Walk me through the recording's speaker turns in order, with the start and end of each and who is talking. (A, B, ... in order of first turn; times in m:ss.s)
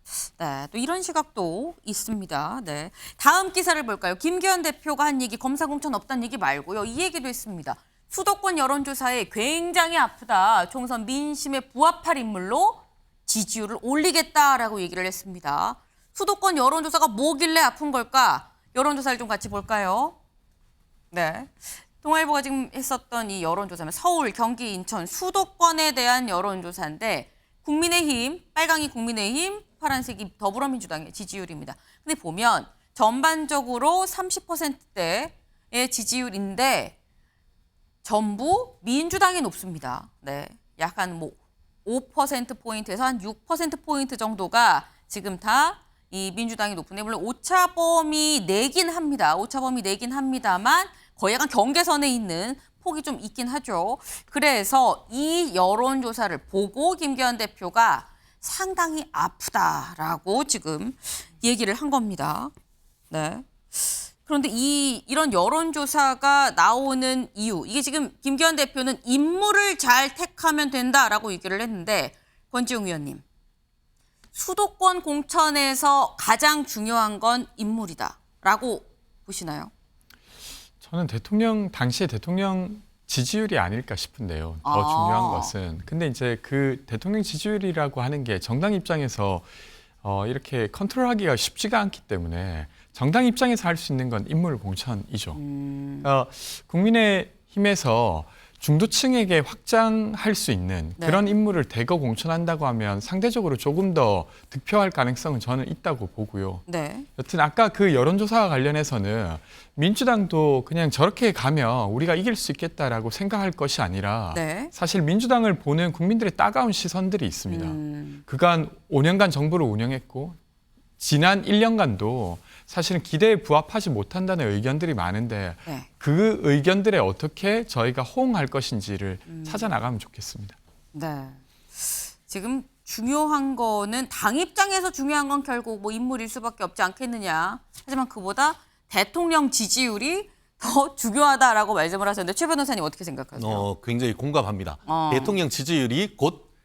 0:00.2-0:20.2 A
0:21.1-0:37.0 A
0:38.0-1:02.5 A
1:03.1-1:13.2 A
1:14.3-1:19.7 A
1:20.8-1:29.5 B
1:24.6-1:25.5 A
1:30.0-1:35.4 B
1:35.4-1:36.1 A
1:36.0-1:46.7 B
1:41.0-1:41.2 A
1:46.7-1:47.1 A
1:47.2-2:00.4 B
1:54.3-1:54.7 A
1:57.5-1:58.2 A
2:01.0-2:10.6 B
2:09.3-2:09.7 A
2:10.9-2:23.7 A
2:23.4-2:26.5 C
2:24.9-2:25.4 A